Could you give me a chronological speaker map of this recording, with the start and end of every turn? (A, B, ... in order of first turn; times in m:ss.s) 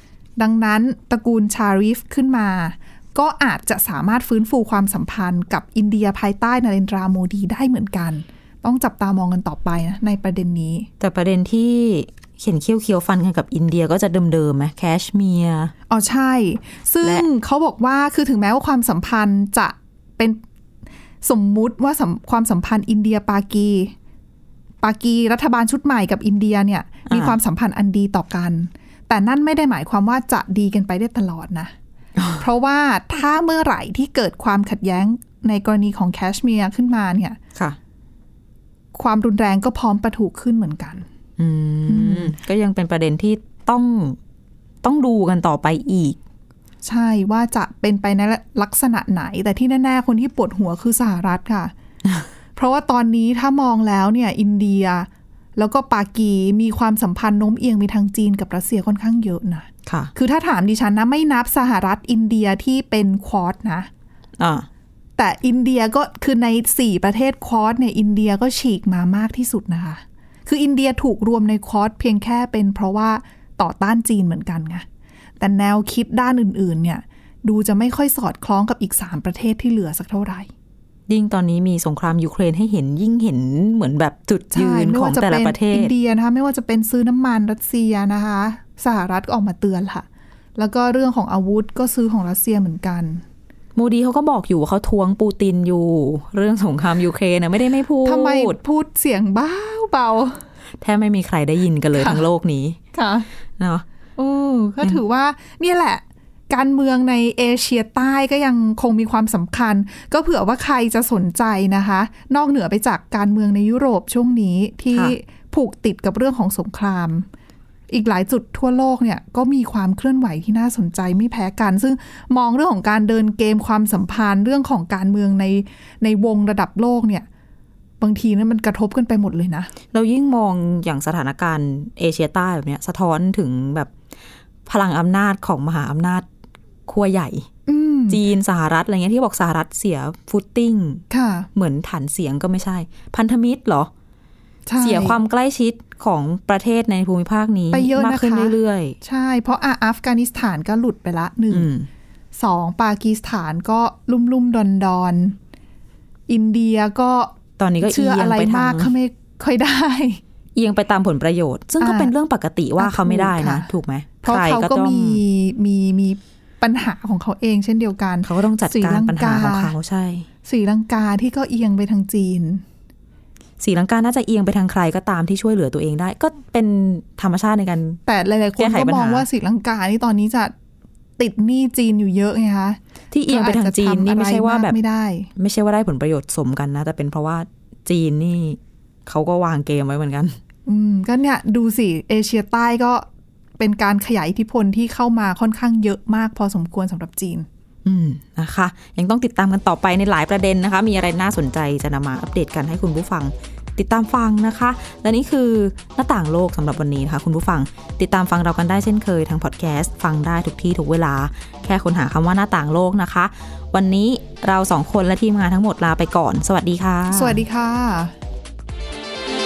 0:00.4-0:10.9 A
0:11.0-0:15.7 B
0:15.9-0:20.4 A
0:21.2-0:23.9 A
0:24.8-0:31.7 A
0:27.1-0:27.4 B
0:32.2-0:32.4 B
0:32.4-0:37.4 A
0:38.9-0:41.0 A
0:41.4-0:44.2 B
0:41.9-0:42.3 A
0:44.8-0:46.2 B
0:46.8-0:51.7 A
0:52.6-1:03.9 A
0:59.8-1:00.1 B
1:04.4-1:04.7 B
1:05.2-1:14.8 A
1:15.4-1:20.5 A
1:21.1-1:25.9 B
1:24.5-1:30.0 A
1:30.6-1:33.2 A
1:33.7-1:38.6 B
1:38.0-1:40.4 A
1:40.8-1:42.8 B
1:41.9-1:42.2 A
1:42.9-1:43.3 A
1:43.6-1:43.8 B
1:44.2-1:57.3 A
1:57.9-2:07.2 A
2:08.0-2:09.7 A
2:09.9-2:13.9 B
2:14.6-2:16.3 B
2:16.9-2:17.5 B
2:17.6-2:18.2 A
2:18.1-2:21.0 B
2:21.1-2:21.5 A
2:21.5-2:23.9 B
2:24.6-2:25.2 A
2:24.8-2:29.0 B
2:27.7-2:31.7 A
2:31.5-2:31.9 B
2:32.4-2:35.4 A
2:36.3-2:40.2 A
2:37.6-2:38.9 B
2:40.5-2:45.2 B
2:41.8-2:42.1 A
2:42.8-2:43.7 A
2:44.2-2:49.7 A
2:48.2-2:50.3 B
2:50.4-2:52.6 A
2:53.6-2:58.0 B
2:58.1-3:00.5 A
2:58.6-2:59.2 B
3:01.2-3:05.3 A
3:03.1-3:04.8 B
3:05.4-3:10.4 B
3:10.6-3:13.0 A
3:13.6-3:17.5 A
3:17.8-3:37.4 B
3:37.1-3:38.1 A